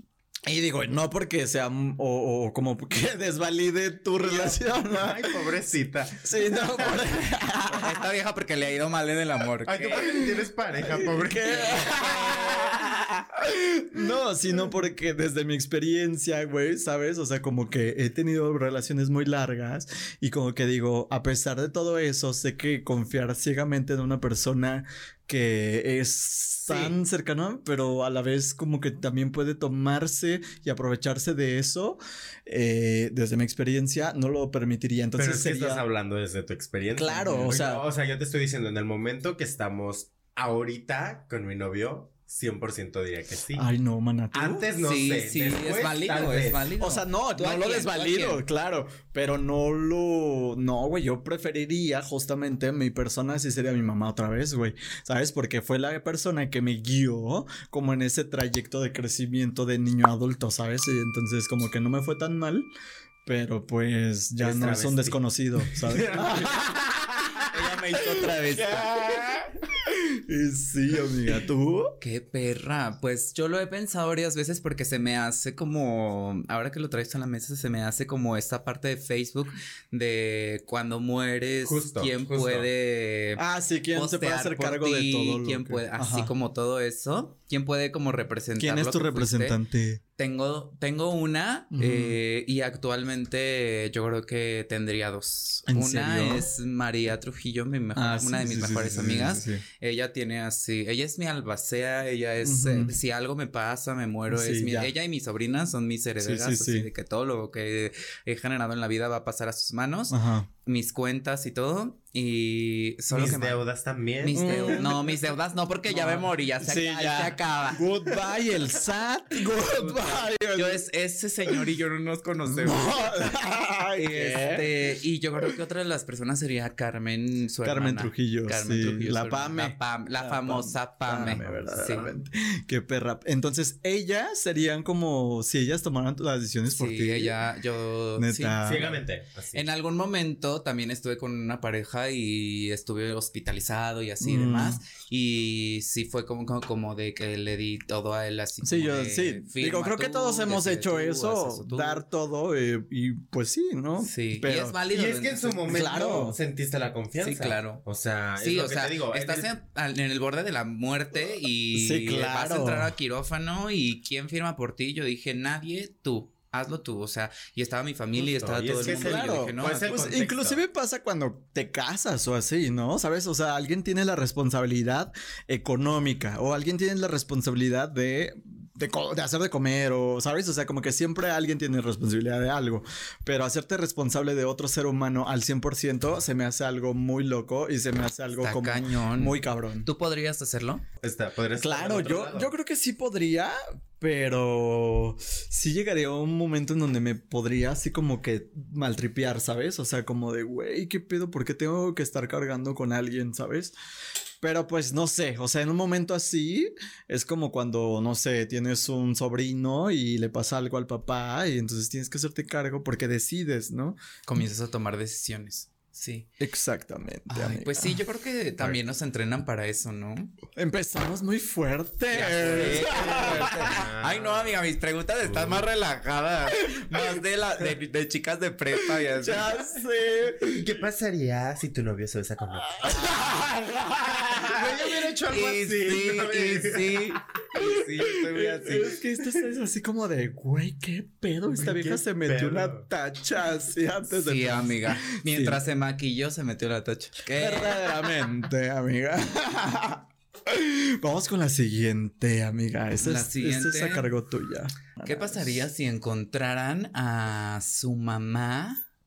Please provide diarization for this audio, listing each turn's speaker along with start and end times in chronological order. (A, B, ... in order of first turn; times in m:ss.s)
0:00.5-0:05.6 A
0:04.2-0:07.3 B
0:06.2-0:08.0 A
0:07.7-0:10.2 C
0:09.6-0:12.6 B
0:10.0-0:35.8 A
0:11.4-0:12.8 C
0:26.6-0:27.0 B
0:35.2-0:43.7 B
0:36.9-0:37.8 A
0:37.3-0:37.6 C
0:43.5-0:44.7 A
0:44.3-0:46.7 B
0:44.8-0:48.4 C
0:46.8-1:02.7 A
1:03.2-1:06.6 A
1:04.4-1:07.5 B
1:07.5-1:08.9 C
1:08.0-1:12.0 A
1:12.0-1:29.6 C
1:21.6-1:22.7 B
1:23.4-1:26.3 A
1:28.6-1:30.0 A
1:30.2-1:53.6 C
1:31.7-1:32.2 A
1:35.7-1:36.5 A
1:37.9-1:39.6 A
1:42.4-1:43.0 A
1:44.3-1:44.9 A
1:46.2-1:46.9 A
1:50.1-1:50.5 A
1:53.1-1:54.9 B
1:54.2-1:58.2 C
1:54.4-1:55.2 A
1:55.9-2:00.8 A
1:59.4-2:03.4 C
2:02.5-2:04.8 A
2:04.0-2:12.1 C
2:07.6-2:17.4 A
2:16.7-2:19.0 C
2:18.2-2:18.9 A
2:18.6-2:19.6 B
2:19.5-2:32.0 C
2:24.2-2:24.8 A
2:28.6-2:34.8 A
2:34.0-2:35.8 C
2:34.9-2:39.5 B
2:35.7-2:36.4 A
2:37.2-2:37.8 C
2:38.4-2:50.0 C
2:41.7-2:42.9 A
2:48.2-2:50.6 B
2:48.8-3:09.9 A
3:08.4-3:10.8 C
3:11.0-3:12.5 B
3:11.6-3:23.7 A
3:24.4-3:34.0 A
3:34.2-3:36.3 C
3:36.4-3:38.0 A
3:37.3-3:40.3 C
3:40.5-3:43.9 A
3:42.1-3:49.7 C
3:42.2-3:44.6 B
3:45.2-3:45.7 B
3:46.6-3:47.6 A
3:48.8-3:50.8 A
3:50.5-3:53.1 B
3:52.7-3:54.6 A
3:54.3-3:59.4 B
3:55.3-3:58.8 C
3:57.6-4:05.6 A
4:01.5-4:02.9 B
4:04.1-4:08.1 C
4:07.3-4:15.6 A
4:13.0-4:14.1 C
4:15.0-4:18.8 C